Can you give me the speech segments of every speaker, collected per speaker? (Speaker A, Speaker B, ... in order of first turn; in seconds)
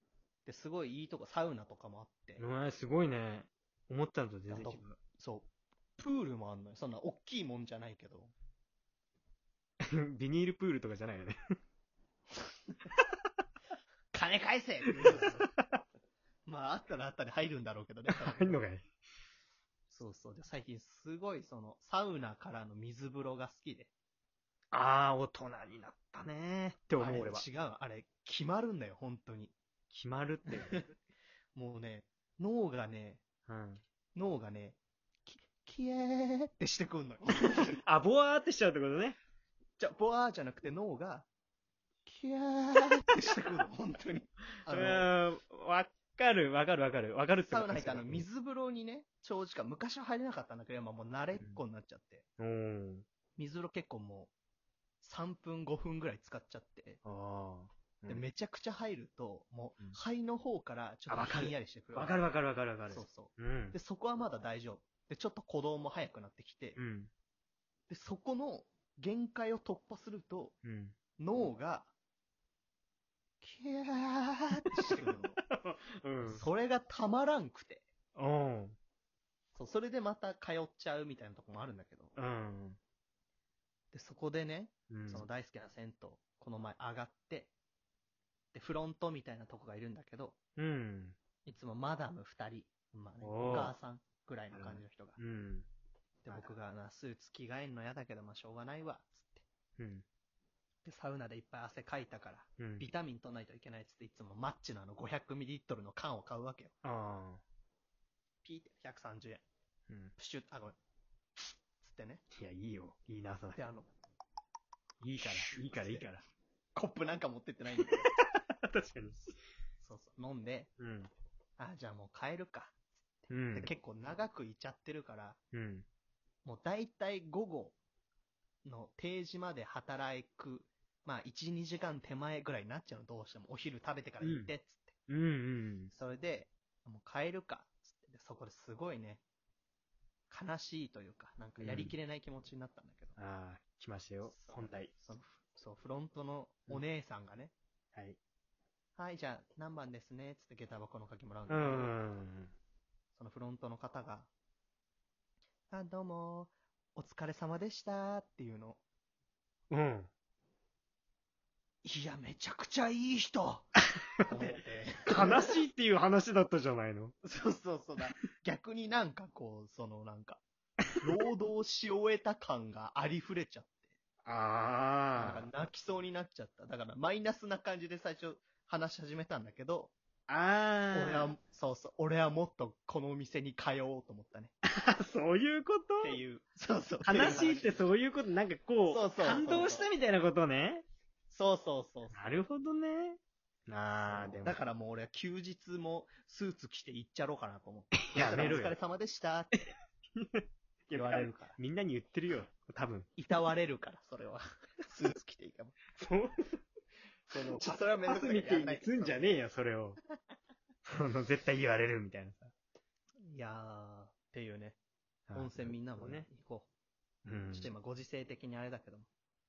Speaker A: 0.5-2.4, 4.5-8.3, 14.1-15.5, 16.5-18.6, 19.9-23.9, 27.0-29.5, 30.6-30.9, 31.6-33.2, 34.2-37.8, 39.8-41.3, 42.0-45.1, 47.4-52.2, 53.4-54.3, 55.0-57.0, 58.1-62.2, 62.9-66.8, 67.9-70.5, 71.2-71.9, 73.4-75.4, 76.2-77.9, 79.5-82.2, 83.9-87.5, 88.5-90.4, 91.5-95.2, 96.2-99.4, 100.8-106.8, 108.4-109.4, 110.2-110.8, 111.8-112.2, 113.5-113.9, 115.2-116.0, 116.8-118.1, 119.8-120.7, 121.6-125.4, 126.5-127.8, 128.7-134.9, 135.9-139.2, 140.3-143.2, 144.3-147.5, 149.0-151.9, 153.2-154.3, 155.7-158.8, 161.8-165.5, 167.2-170.4, 171.0-173.8, 175.2-179.9, 180.9-184.5, 186.0-187.8, 188.9-189.8, 191.3-192.2, 194.0-199.6, 200.9-201.6, 203.2-205.8, 207.4-209.3, 213.2-214.8, 215.3-216.7, 217.5-219.1
Speaker B: 2.4-4.9, 9.8-11.4, 15.0-15.7, 18.1-18.8, 24.7-27.4, 29.9-30.8, 33.5-33.8, 37.8-39.2, 44.7-48.3, 51.4-51.6, 52.4-53.0, 57.0-58.2, 61.1-63.8, 66.8-67.1, 70.6-71.0, 74.8-76.4, 78.2-78.8, 82.2-82.8, 84.9-85.2, 90.6-91.2, 93.2-93.8, 94.5-95.7, 99.8-100.0, 102.6-102.9, 106.8-107.4, 112.4-113.6, 115.0-116.2, 117.8-119.3, 120.8-121.1, 123.3-123.7, 125.5-125.9, 134.2-134.5, 135.1-135.9, 141.6-141.9, 143.2-144.9, 151.5-152.5, 159.7-160.1, 165.1-167.1, 174.2-175.5, 180.3-181.3, 184.7-186.2, 187.0-190.9, 192.1-194.6, 198.1-198.8, 200.2-203.1, 206.0-206.6, 207.3-210.0, 210.9-212.5, 215.3-216.3, 217.2-217.7